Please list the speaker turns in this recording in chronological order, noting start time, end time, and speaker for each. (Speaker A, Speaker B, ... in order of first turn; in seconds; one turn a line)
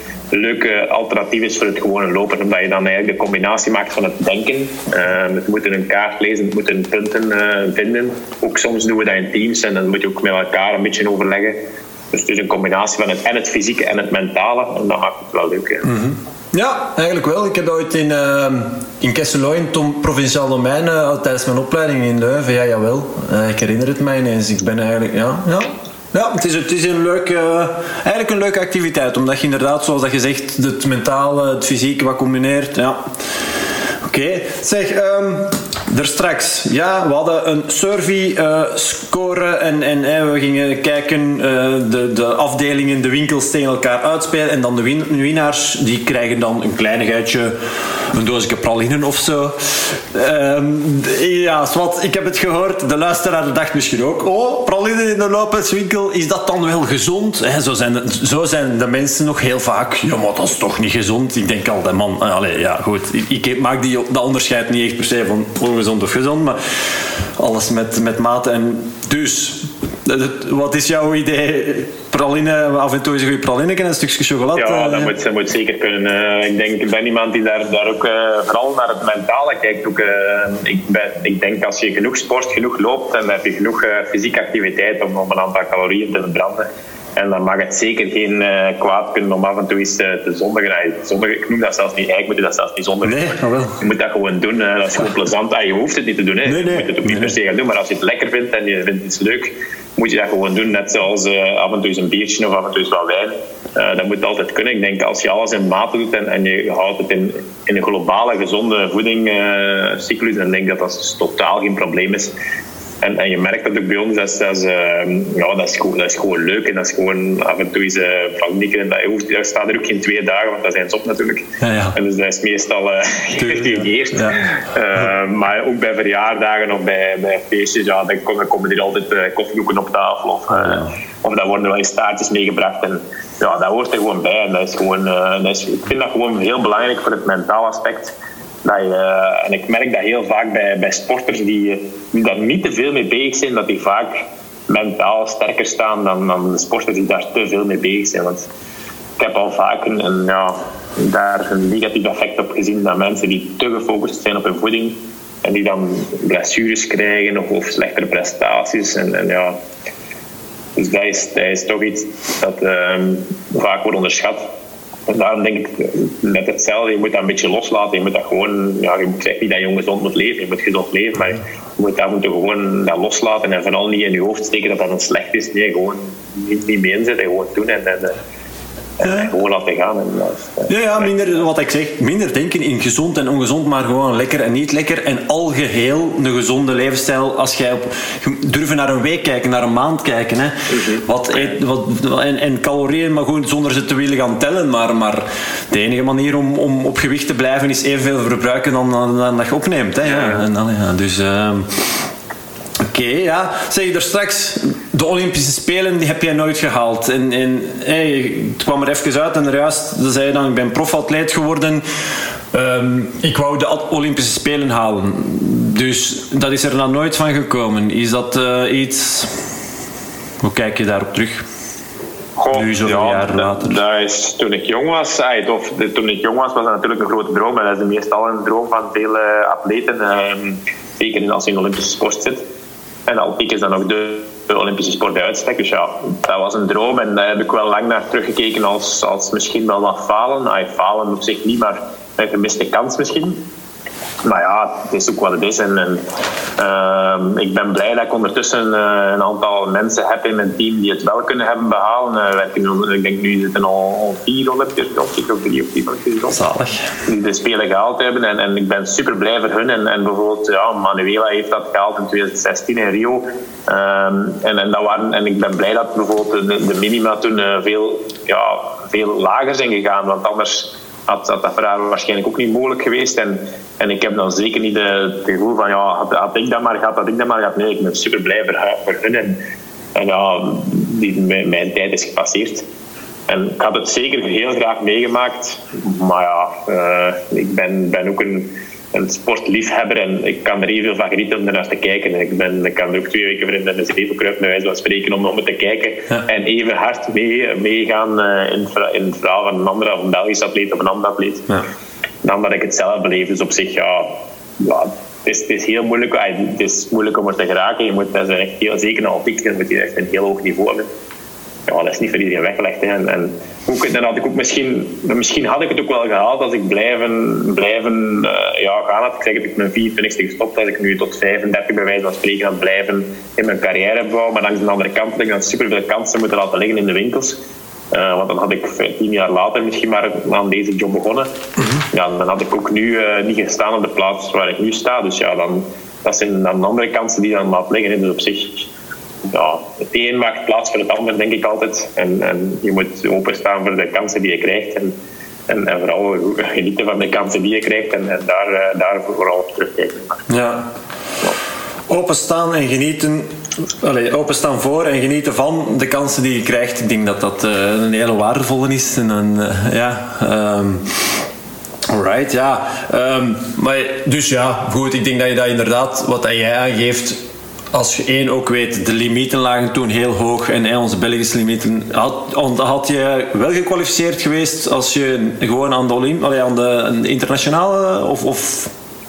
Speaker A: 0.3-11.6
Speaker A: 12.1-15.9
Speaker B: 15.8-33.0
Speaker B: 34.0-47.5
Speaker B: 48.1-66.8
Speaker B: 67.4-75.1
Speaker A: 74.5-86.6
Speaker A: 87.2-93.2
Speaker B: 93.0-93.8
Speaker A: 93.8-112.3
Speaker B: 96.5-97.3
Speaker A: 113.0-144.1
Speaker B: 121.6-122.0
Speaker B: 123.4-124.4
Speaker B: 130.5-130.9
Speaker A: 144.7-148.5
Speaker A: 149.2-159.6
Speaker A: 160.8-164.4
Speaker A: 165.1-178.1
Speaker A: 179.0-181.4
Speaker B: 179.0-179.3
Speaker B: 180.7-202.1
Speaker A: 190.7-191.5
Speaker A: 200.0-200.4
Speaker B: 202.8-211.8
Speaker B: 212.5-219.4
Speaker B: 220.4-221.4
Speaker A: 222.4-232.4
Speaker B: 222.5-223.7
Speaker A: 233.1-243.4
Speaker A: 244.2-246.0
Speaker A: 246.6-256.4
Speaker B: 256.3-256.8
Speaker A: 257.1-279.4
Speaker A: 279.9-282.6
Speaker A: 283.3-301.5
Speaker A: 302.2-310.9
Speaker A: 311.7-327.4
Speaker A: 327.9-331.3
Speaker A: 331.9-338.7
Speaker A: 339.3-344.9
Speaker A: 345.5-350.3
Speaker B: 350.3-350.7
Speaker B: 351.9-361.2
Speaker B: 361.9-378.7